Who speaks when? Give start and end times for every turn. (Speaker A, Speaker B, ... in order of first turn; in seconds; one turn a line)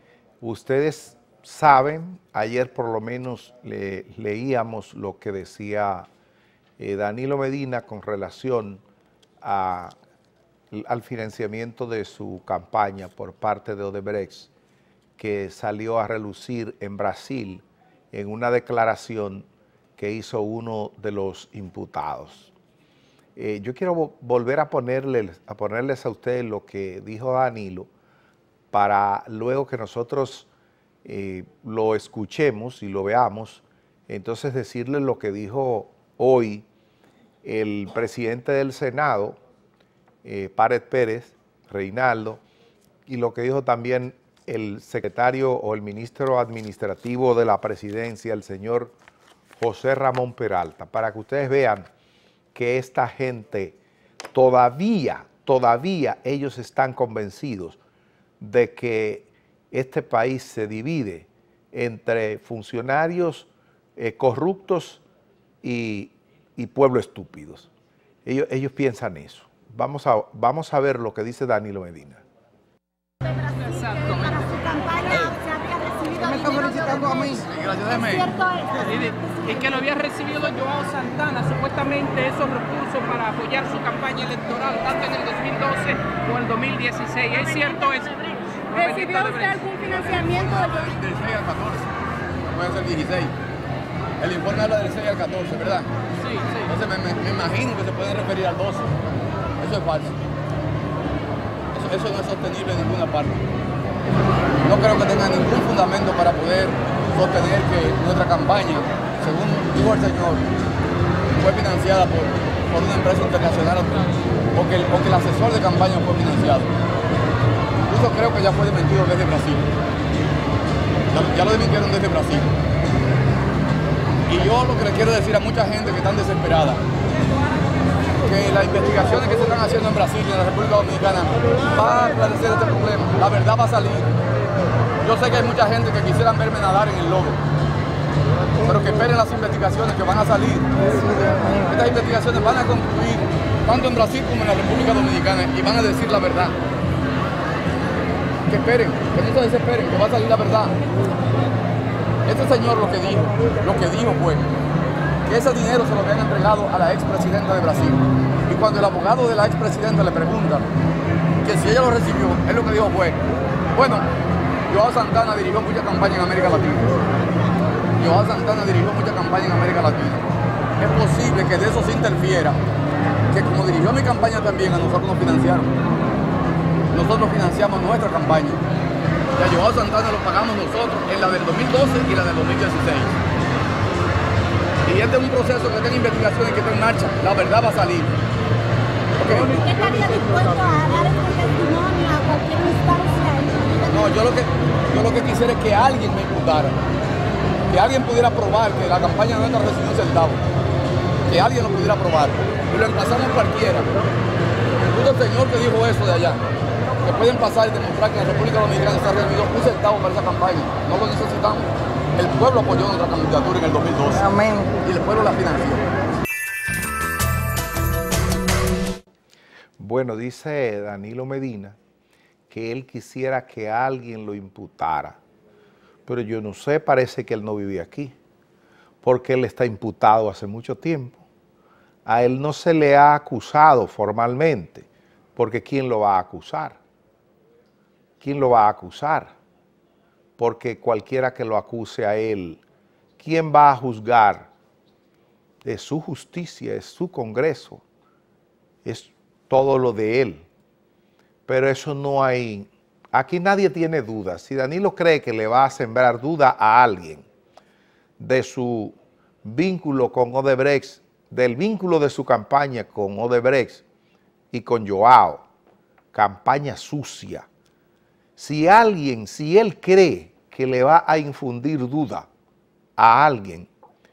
Speaker A: 0.4-6.1
Speaker A: 6.8-8.8
Speaker A: 9.4-9.9
Speaker A: 10.7-14.5
Speaker A: 15.2-19.4
Speaker A: 20.0-22.5
Speaker A: 23.4-27.9
Speaker A: 28.7-30.5
Speaker A: 31.0-36.6
Speaker A: 37.4-39.4
Speaker A: 40.2-42.4
Speaker A: 43.0-48.9
Speaker A: 49.6-51.9
Speaker A: 52.5-53.8
Speaker A: 54.3-57.8
Speaker A: 58.4-65.0
Speaker A: 65.6-67.7
Speaker A: 68.2-72.2
Speaker B: 73.5-75.5
Speaker C: 73.6-73.9
Speaker C: 75.5-76.3
Speaker B: 76.1-78.7
Speaker C: 78.5-79.9
Speaker D: 79.4-88.2
Speaker C: 81.9-85.7
Speaker C: 87.5-88.0
Speaker B: 88.7-91.9
Speaker B: 92.5-93.3
Speaker B: 94.2-98.9
Speaker B: 99.6-100.1
Speaker B: 101.7-103.4
Speaker B: 104.6-110.5
Speaker B: 111.3-116.7
Speaker B: 117.9-119.7
Speaker B: 121.1-122.5
Speaker B: 124.3-126.8
Speaker B: 128.2-134.1
Speaker B: 135.0-137.4
Speaker B: 138.6-146.6
Speaker B: 148.5-150.8
Speaker B: 152.2-154.5
Speaker B: 155.3-160.7
Speaker B: 161.4-163.2
Speaker B: 163.7-164.1
Speaker B: 164.7-166.9
Speaker B: 168.0-172.6
Speaker B: 173.3-175.7
Speaker B: 176.9-178.6
Speaker B: 179.3-183.1
Speaker B: 184.8-188.2
Speaker B: 189.2-190.9
Speaker C: 189.7-193.6
Speaker B: 193.7-196.8
Speaker B: 197.7-200.4
Speaker B: 201.3-203.9
Speaker B: 204.8-206.5
Speaker B: 207.0-215.8
Speaker A: 219.8-221.8
Speaker A: 222.5-225.2
Speaker A: 226.1-228.1
Speaker A: 229.0-231.2
Speaker A: 232.1-236.8
Speaker A: 238.2-239.3
Speaker A: 240.4-242.6
Speaker A: 243.2-244.5
Speaker A: 245.6-247.8
Speaker A: 248.8-250.4
Speaker A: 251.5-257.2
Speaker A: 258.2-263.8
Speaker A: 264.5-265.4
Speaker A: 266.1-267.5
Speaker A: 268.4-272.3
Speaker A: 273.0-273.7